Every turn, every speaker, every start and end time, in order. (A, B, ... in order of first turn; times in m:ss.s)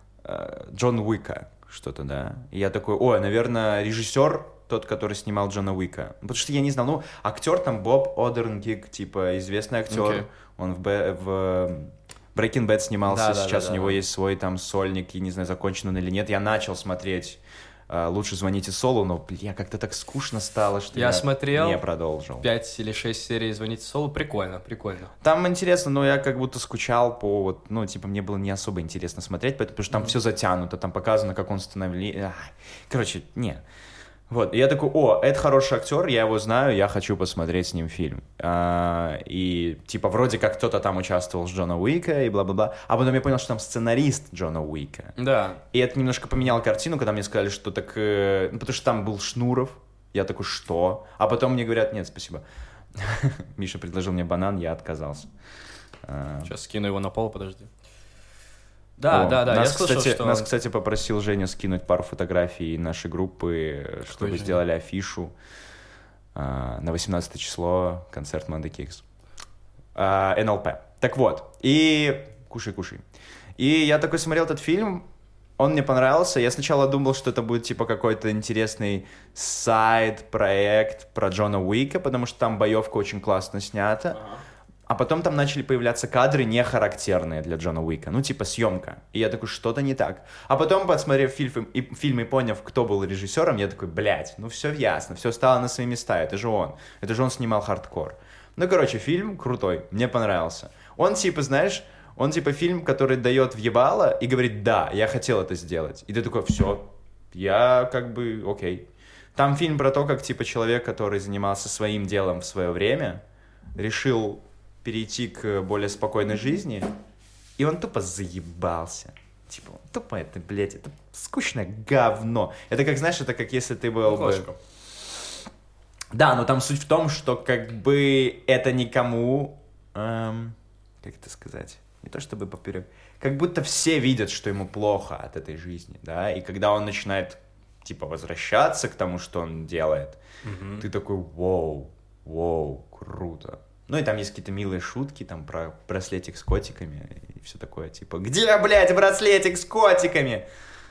0:00.2-0:22.5 A
0:09.9-0:10.3 B
0:13.1-0:14.0 B
0:20.9-0:21.8 B
0:22.4-0:25.1 B
0:25.2-0:33.6 A
0:34.3-0:45.2 A
0:45.2-0:45.6 B
0:45.7-0:52.4 A
0:53.0-0:55.3 A
0:56.0-0:56.5 A
0:56.4-0:57.7 B
0:59.0-1:00.5 B
0:59.1-1:05.3 A
1:04.0-1:04.6 B
1:06.4-1:09.0 A
1:10.0-1:13.0 A
1:13.6-1:15.0 A
1:15.6-1:24.2 A
1:24.2-1:24.4 B
1:24.9-1:53.2 A
1:53.8-1:56.9 A
1:57.6-2:04.5 A
2:04.1-2:04.6 B
2:06.1-2:20.2 A
2:20.4-2:20.8 B
2:20.8-2:30.5 A